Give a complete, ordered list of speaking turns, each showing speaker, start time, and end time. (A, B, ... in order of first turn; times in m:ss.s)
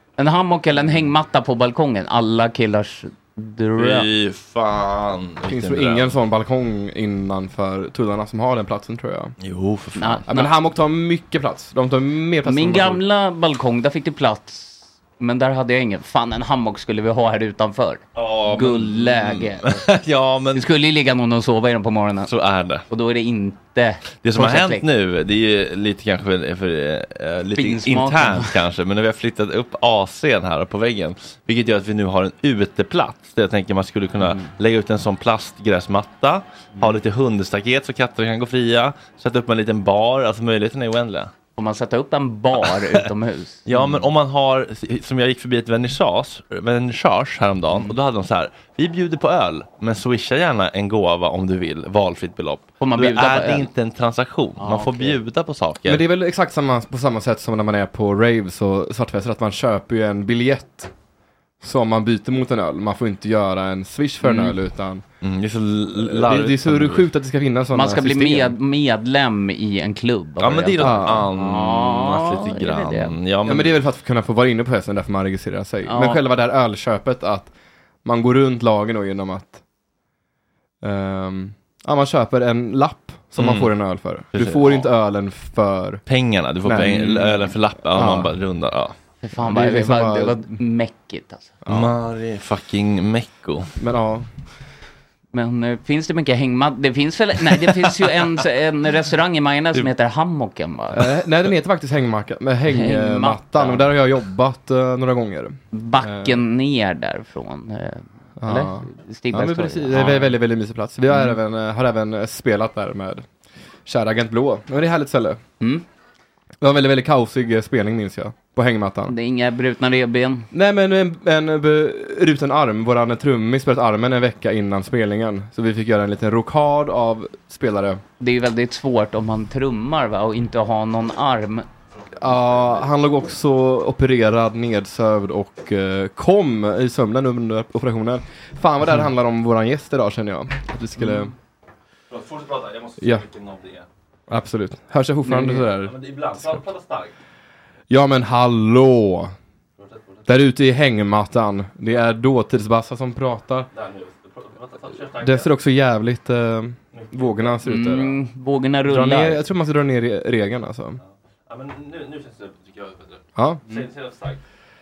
0:00.2-0:04.1 A
0:03.8-0:06.2 B
0:05.5-0:09.3 C
0:09.4-0:10.3 B
0:10.0-0:10.5 A
0:10.3-0:13.0 C
0:12.4-0:19.8 A
0:18.2-0:20.7 B
0:20.5-0:22.3 A
0:22.3-0:22.8 B
0:22.9-0:24.8 A
0:24.2-0:41.3 B
0:27.6-0:28.6 A
0:34.2-0:34.5 A
0:41.6-0:44.0 A
0:43.7-0:56.0 B
0:52.8-0:53.7 A
0:54.6-0:55.2 A
0:55.9-1:00.9 C
1:01.6-1:05.0 C
1:04.2-1:04.6 A
1:05.2-1:07.1 B
1:06.0-1:08.6 C
1:07.7-1:13.1 A
1:10.4-1:13.7 B
1:10.8-1:11.3 C
1:13.4-1:17.5 C
1:15.9-1:16.2 A
1:18.0-1:19.6 C
1:20.8-1:26.0 C
1:23.4-1:23.7 B
1:24.3-1:24.9 B
1:26.1-1:29.0 B
1:26.6-1:27.2 C
1:27.0-1:27.3 A
1:27.9-1:28.3 C
1:29.2-1:31.5 A
1:29.4-1:30.4 C
1:31.6-1:31.9 C
1:31.7-1:33.7 B
1:33.8-1:34.3 C
1:35.3-1:41.1 A
1:40.9-1:46.4 C
1:42.7-1:43.9 A
1:45.7-1:50.3 A
1:48.4-1:53.3 C
1:53.9-1:55.4 C
1:56.6-1:59.2 C
1:59.1-2:00.5 A
2:00.5-2:08.0 C
2:08.2-2:11.7 A
2:12.2-2:12.7 B
2:12.2-2:21.3 C
2:22.1-2:23.9 B
2:24.3-2:26.6 C
2:25.3-2:25.6 A
2:25.7-2:27.1 B
2:27.9-2:29.3 C
2:29.8-2:30.2 B
2:30.3-2:33.7 C
2:33.7-2:35.5 B
2:35.2-2:38.2 C
2:36.9-2:37.6 B
2:37.6-2:39.4 A
2:38.9-2:41.0 C
2:41.5-2:44.4 B
2:43.4-2:43.8 C